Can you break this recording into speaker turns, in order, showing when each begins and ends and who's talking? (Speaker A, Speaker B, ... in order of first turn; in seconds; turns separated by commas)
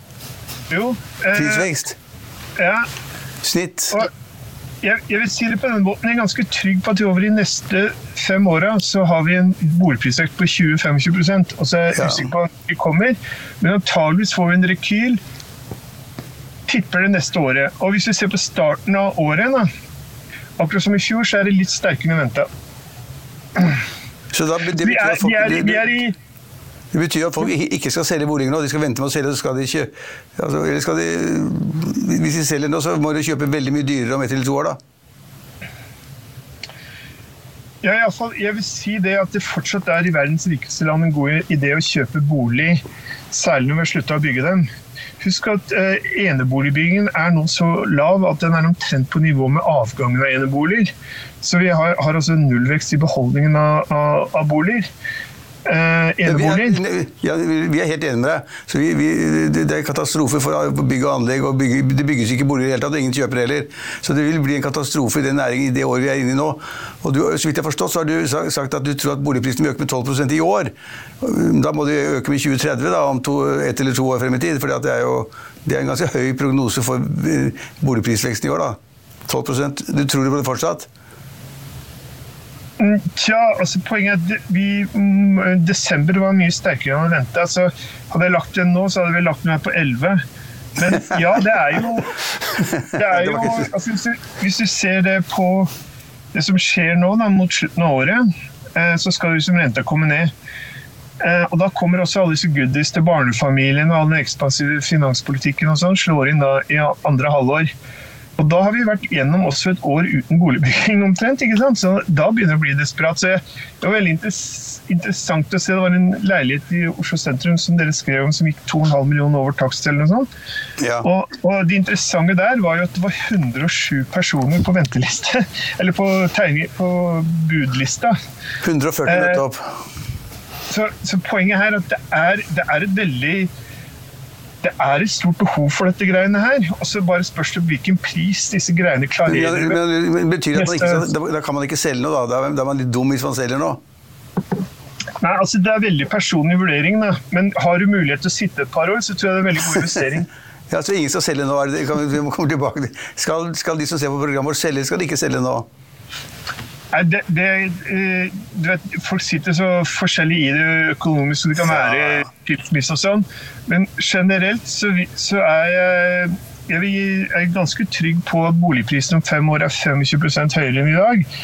Speaker A: 0.7-1.7, Speaker B: 1.3-2.0, Speaker A: 2.6-2.9, Speaker B: 3.4-4.0, Speaker A: 4.8-15.2, Speaker B: 11.9-12.3, Speaker A: 16.7-19.7, Speaker A: 20.6-22.5, Speaker B: 24.3-25.9, Speaker A: 24.8-26.2, Speaker B: 26.9-34.8, Speaker A: 37.8-44.7, Speaker A: 45.2-50.9, Speaker A: 51.4-54.9, Speaker A: 55.7-56.8, Speaker B: 56.2-80.9, Speaker A: 82.8-90.2, Speaker B: 90.8-91.4, Speaker A: 90.8-92.2, Speaker B: 92.6-93.7, Speaker A: 92.9-95.7, Speaker A: 96.3-100.3, Speaker A: 101.2-107.7, Speaker A: 108.4-120.3, Speaker B: 120.8-121.1, Speaker A: 121.0-128.2, Speaker B: 128.6-129.7, Speaker A: 129.1-129.4, Speaker A: 130.7-133.5, Speaker A: 134.6-139.8, Speaker B: 139.3-143.8, Speaker A: 140.6-141.1, Speaker A: 145.2-150.3, Speaker B: 150.7-155.7, Speaker A: 156.9-171.3, Speaker B: 161.6-162.3